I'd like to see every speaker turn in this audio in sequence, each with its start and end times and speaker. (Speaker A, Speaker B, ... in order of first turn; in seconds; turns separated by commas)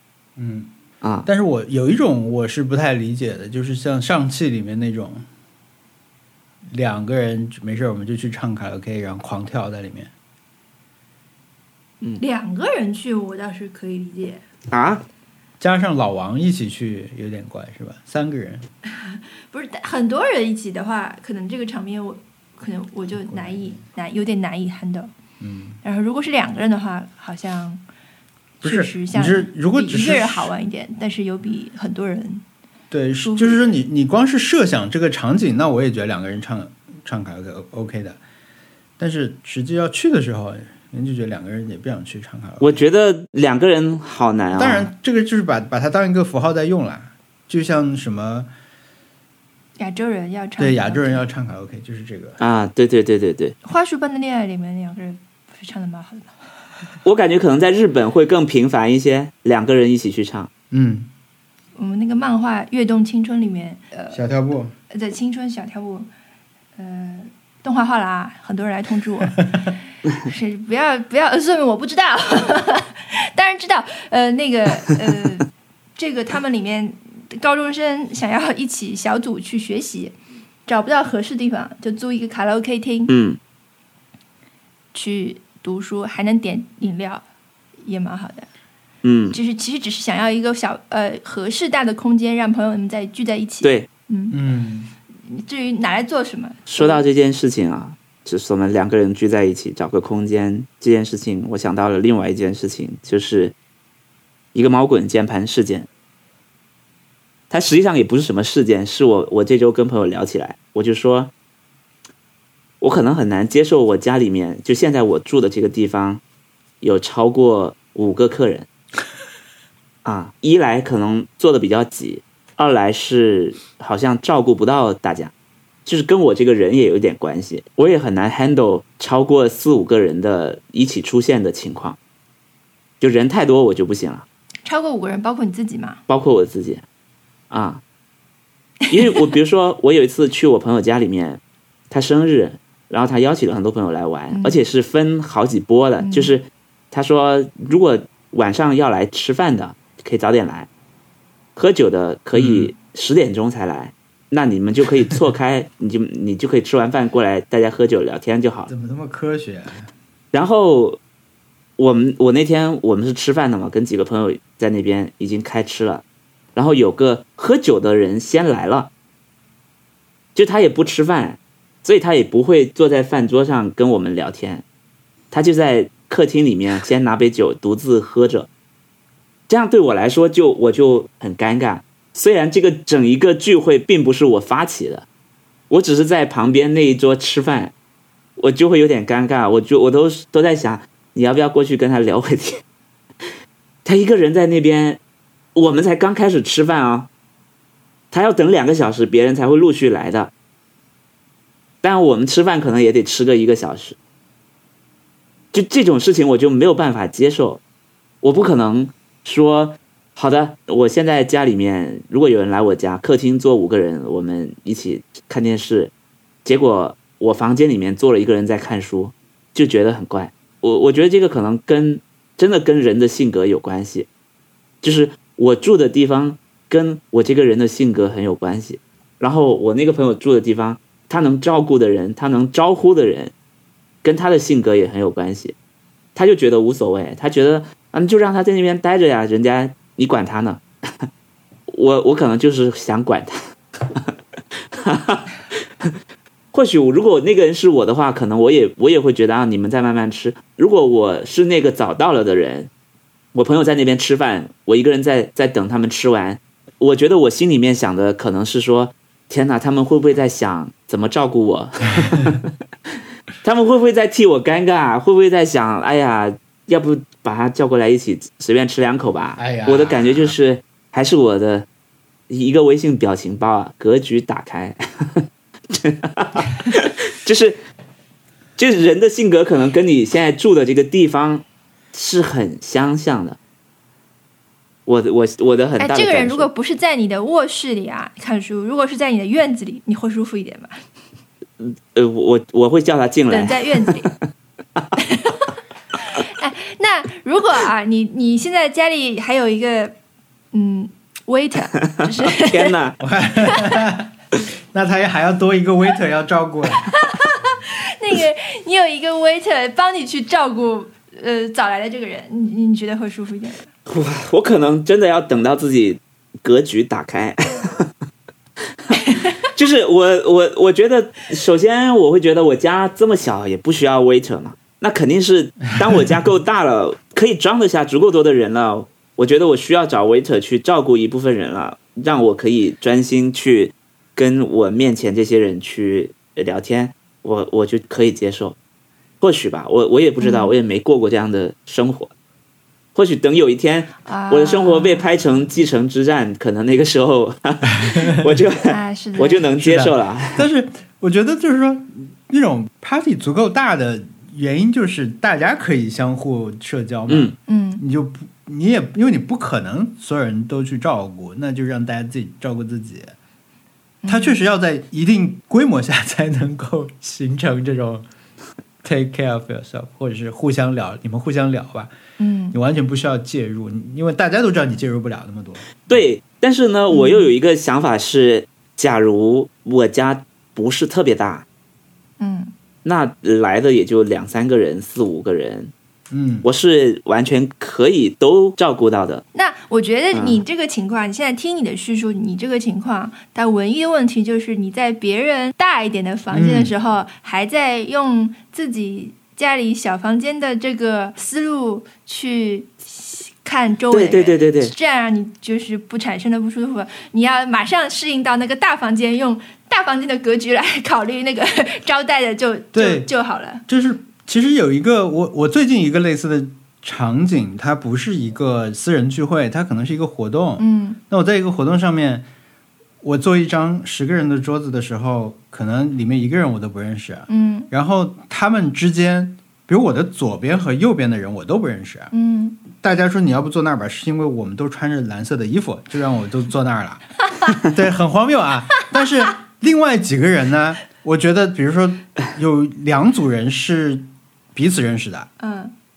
Speaker A: 0.4-0.7, Speaker B: 1.0-1.3, Speaker A: 1.2-5.2, Speaker A: 6.7-10.1, Speaker C: 12.2-14.4, Speaker B: 14.7-15.0, Speaker A: 15.6-18.6, Speaker C: 18.9-25.1, Speaker A: 23.3-23.8, Speaker A: 25.4-25.8, Speaker C: 25.8-27.8, Speaker A: 28.6-30.5, Speaker C: 28.6-32.4, Speaker A: 32.9-38.2, Speaker C: 33.2-33.7, Speaker A: 39.0-42.8, Speaker B: 42.6-44.9, Speaker A: 44.5-48.5, Speaker C: 49.8-51.2, Speaker A: 50.6-52.4, Speaker B: 52.4-53.5, Speaker C: 53.6-56.3, Speaker B: 57.0-60.5, Speaker A: 60.7-61.1, Speaker C: 61.8-64.2, Speaker A: 64.1-64.7, Speaker C: 64.9-66.1, Speaker C: 66.8-80.2, Speaker C: 80.7-83.1, Speaker B: 83.1-83.4, Speaker C: 84.9-87.2, Speaker C: 87.8-88.5, Speaker B: 89.0-89.4, Speaker C: 89.3-94.4, Speaker B: 93.6-93.9, Speaker A: 94.3-94.9, Speaker C: 95.3-97.0, Speaker B: 96.7-103.5, Speaker B: 104.5-105.9, Speaker B: 107.5-111.3, Speaker B: 112.8-116.2, Speaker B: 116.8-118.7, Speaker B: 120.0-125.3, Speaker B: 125.8-132.0, Speaker B: 133.0-134.2, Speaker C: 134.6-136.0, Speaker B: 136.1-136.8, Speaker B: 137.5-137.8, Speaker B: 138.9-150.7, Speaker C: 144.3-144.6, Speaker C: 146.0-146.3, Speaker B: 151.6-158.7, Speaker A: 152.3-152.7, Speaker A: 158.7-159.9, Speaker B: 160.3-161.0, Speaker B: 161.8-166.0, Speaker B: 166.5-168.9, Speaker B: 170.3-174.6, Speaker B: 175.3-178.5, Speaker B: 179.5-185.1, Speaker B: 185.7-187.7, Speaker B: 188.4-192.6, Speaker B: 193.8-195.0, Speaker B: 195.5-197.1, Speaker B: 198.1-200.3, Speaker B: 201.8-204.0, Speaker B: 205.5-207.6, Speaker B: 208.2-215.9, Speaker B: 216.4-224.1, Speaker B: 224.8-233.3, Speaker B: 234.0-235.5, Speaker B: 236.1-241.1, Speaker B: 241.7-243.4, Speaker B: 244.7-245.3, Speaker B: 246.5-252.7, Speaker B: 253.3-262.5, Speaker B: 263.4-271.6, Speaker A: 269.4-270.3, Speaker B: 272.3-277.6, Speaker B: 278.6-283.4, Speaker B: 284.9-286.5, Speaker C: 285.8-290.7, Speaker B: 291.6-294.1, Speaker C: 293.3-294.1, Speaker C: 295.0-295.5, Speaker C: 296.0-299.9, Speaker C: 300.5-302.8, Speaker B: 301.8-302.9, Speaker A: 303.0-304.1, Speaker C: 303.4-303.8, Speaker A: 304.7-306.9, Speaker C: 306.7-313.7, Speaker B: 313.9-317.9, Speaker B: 318.9-338.6, Speaker C: 319.1-319.3, Speaker B: 339.2-342.1, Speaker C: 340.2-340.5, Speaker B: 342.9-350.4, Speaker C: 344.0-345.1, Speaker C: 348.7-349.5, Speaker A: 349.6-363.1, Speaker C: 357.5-357.8, Speaker C: 364.0-364.4, Speaker A: 364.1-368.0, Speaker A: 368.8-371.9, Speaker C: 372.2-372.6, Speaker A: 372.5-375.8, Speaker B: 375.9-381.4, Speaker C: 376.9-377.3, Speaker C: 382.2-382.5, Speaker B: 382.8-385.7, Speaker A: 386.1-386.4, Speaker B: 386.4-389.2, Speaker C: 389.3-413.6, Speaker B: 390.1-390.4, Speaker A: 396.3-396.7, Speaker B: 403.9-404.7, Speaker A: 412.7-413.1, Speaker A: 413.7-422.3, Speaker C: 420.6-421.0, Speaker A: 423.0-432.1, Speaker C: 427.3-427.7, Speaker C: 432.1-432.6, Speaker A: 432.7-445.3, Speaker C: 445.4-445.7